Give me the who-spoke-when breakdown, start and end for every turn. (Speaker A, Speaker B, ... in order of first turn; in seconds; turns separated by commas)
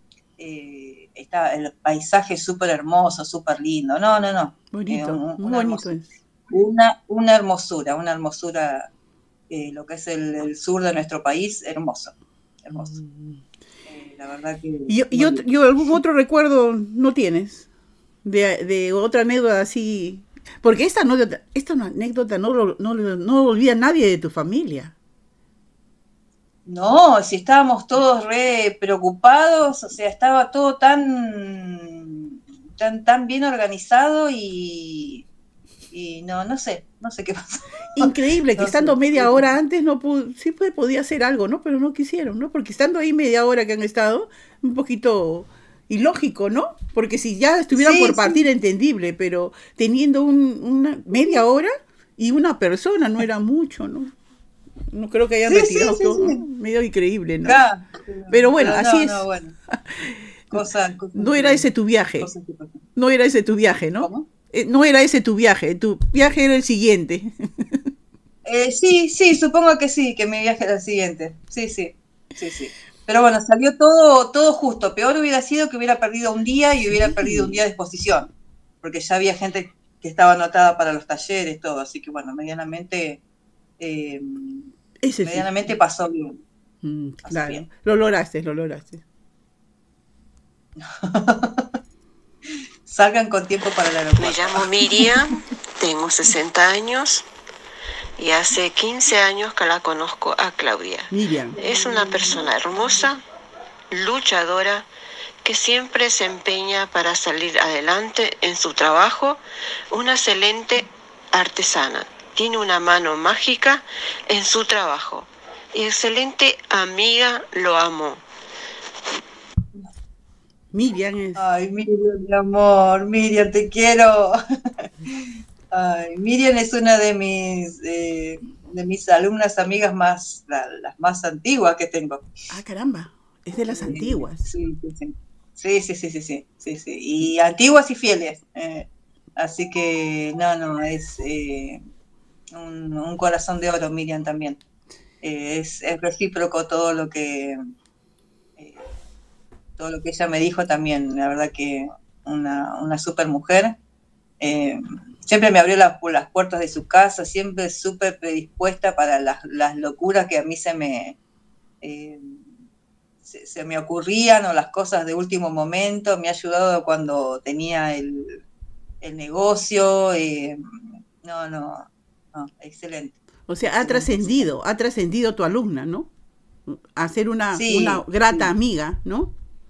Speaker A: 0.4-5.9, Speaker B: 4.7-6.1, Speaker A: 6.5-8.9, Speaker A: 9.5-12.9, Speaker B: 12.8-13.4, Speaker A: 13.9-15.4, Speaker B: 14.9-17.7, Speaker B: 18.2-24.9, Speaker A: 26.7-35.3, Speaker A: 35.9-37.4, Speaker B: 38.0-54.1, Speaker A: 38.0-39.5, Speaker A: 47.7-48.5, Speaker B: 54.9-57.6, Speaker A: 55.5-56.4, Speaker A: 57.5-59.5, Speaker B: 58.3-60.6, Speaker A: 60.5-61.7, Speaker B: 61.1-62.3, Speaker A: 62.2-62.8, Speaker B: 63.0-67.8, Speaker A: 64.0-64.3, Speaker A: 68.5-78.3, Speaker B: 76.9-77.6, Speaker A: 78.8-83.2, Speaker A: 83.8-84.7, Speaker B: 85.0-85.7, Speaker A: 85.2-86.4, Speaker B: 86.8-89.0, Speaker A: 87.2-87.7, Speaker A: 90.8-91.7, Speaker A: 92.9-95.1, Speaker C: 94.2-97.2, Speaker C: 98.2-103.2, Speaker B: 101.1-101.6, Speaker A: 101.6-103.0, Speaker C: 103.9-104.9, Speaker C: 105.4-109.4, Speaker C: 109.9-118.2, Speaker B: 120.7-121.4, Speaker A: 121.4-124.4, Speaker A: 125.1-132.2, Speaker B: 132.5-134.5, Speaker A: 133.7-138.9, Speaker A: 139.4-141.8, Speaker A: 142.5-144.6, Speaker A: 145.2-147.6, Speaker A: 148.6-148.9, Speaker A: 149.8-153.8, Speaker A: 154.4-161.2, Speaker A: 161.8-162.4, Speaker A: 163.2-168.4, Speaker A: 169.0-170.6, Speaker A: 171.2-174.5, Speaker B: 173.5-176.1, Speaker B: 176.7-179.3, Speaker A: 177.5-178.5